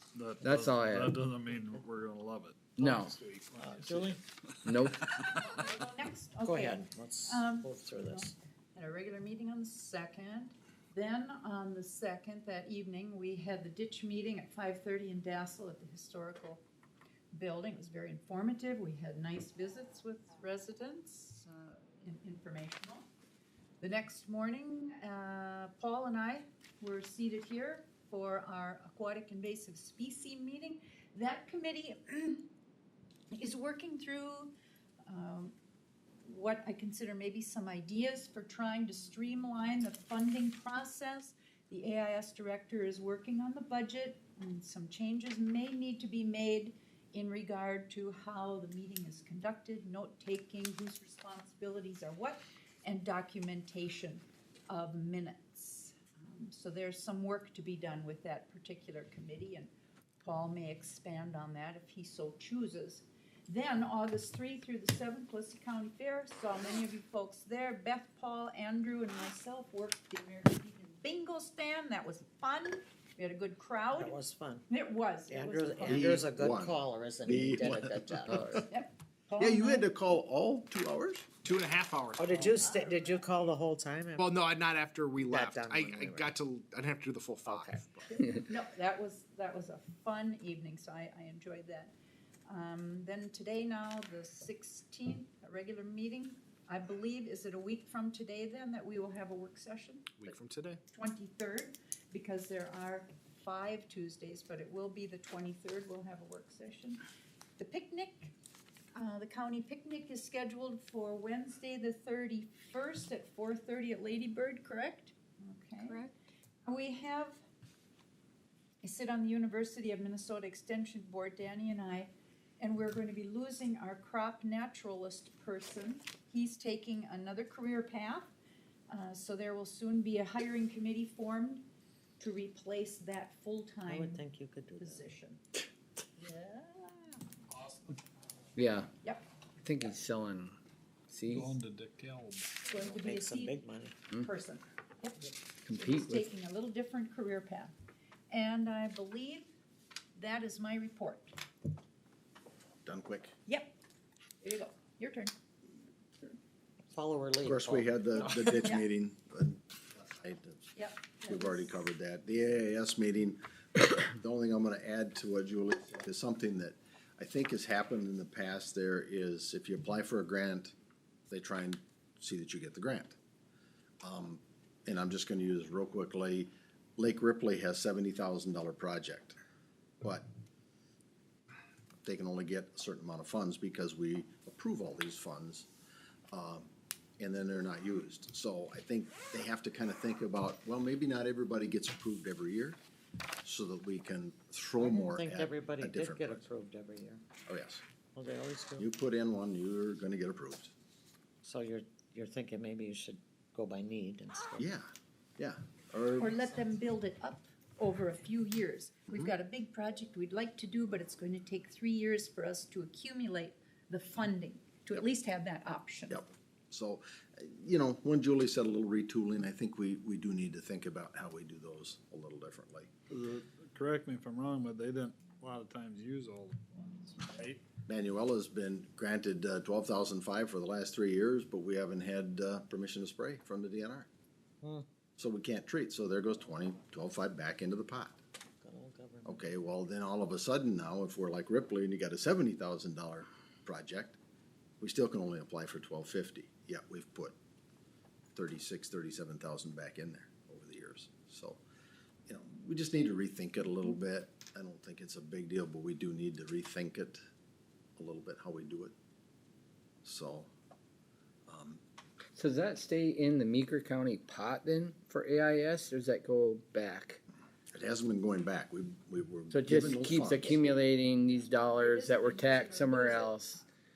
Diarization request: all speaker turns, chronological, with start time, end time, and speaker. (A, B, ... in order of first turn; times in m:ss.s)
0:00.1-0:04.2 A
0:00.4-0:01.2 B
0:02.8-0:03.1 B
0:03.5-0:04.2 C
0:04.6-0:05.1 B
0:04.8-0:05.2 A
0:05.4-0:16.6 D
0:06.4-0:08.3 C
0:17.3-0:23.1 D
0:23.8-0:32.4 D
0:33.3-0:34.5 D
0:35.1-0:35.6 D
0:36.2-1:14.2 D
1:13.9-1:14.7 C
1:14.7-1:16.2 D
1:15.3-1:18.6 C
1:15.8-1:18.6 E
1:18.3-1:18.6 B
1:18.7-1:19.9 D
1:19.4-1:21.3 E
1:21.4-1:22.7 F
1:22.2-1:24.3 C
1:22.3-1:23.5 D
1:24.2-1:28.1 F
1:25.2-1:26.3 C
1:27.5-1:27.8 C
1:28.1-1:31.9 D
1:32.5-1:40.3 D
1:40.2-1:40.8 F
1:40.9-1:47.0 D
1:47.6-1:48.3 D
1:48.9-1:56.0 D
1:56.7-1:57.4 D
1:58.8-2:08.3 D
2:08.9-2:11.7 D
2:12.2-2:14.2 D
2:13.9-2:15.0 C
2:14.8-2:15.4 D
2:16.2-2:17.2 D
2:18.6-2:18.9 B
2:19.6-2:20.6 B
2:21.1-2:21.5 B
2:21.3-2:22.7 A
2:22.7-2:27.7 D
2:22.8-2:24.0 C
2:25.7-2:26.3 B
2:28.3-2:29.5 D
2:30.1-2:31.4 D
2:32.8-2:33.3 E
2:33.4-2:33.7 D
2:34.4-2:35.3 D
2:36.9-2:38.2 C
2:37.4-2:50.7 E
2:40.8-2:41.7 D
2:51.3-2:53.2 E
2:54.0-2:59.4 E
3:00.0-3:00.3 E
3:02.0-3:05.7 E
3:06.3-3:12.8 E
3:13.4-3:16.4 E
3:14.8-3:17.2 C
3:17.4-3:17.8 E
3:18.1-3:18.9 C
3:18.8-3:20.7 E
3:21.4-3:24.7 C
3:24.6-3:26.4 E
3:26.2-3:36.3 D
3:36.1-3:42.9 E
3:43.1-3:47.6 A
3:47.8-3:54.1 E
3:54.6-3:54.9 C
3:55.2-3:58.2 E
3:58.6-3:59.4 C
3:59.2-4:04.2 E
4:04.8-4:07.3 E
4:08.3-4:11.6 E
4:12.3-4:17.2 E
4:18.0-4:18.9 E
4:20.0-4:20.5 E
4:21.5-4:21.8 E
4:22.3-4:27.2 B
4:27.7-4:30.8 E
4:29.5-4:33.6 B
4:31.6-4:33.6 D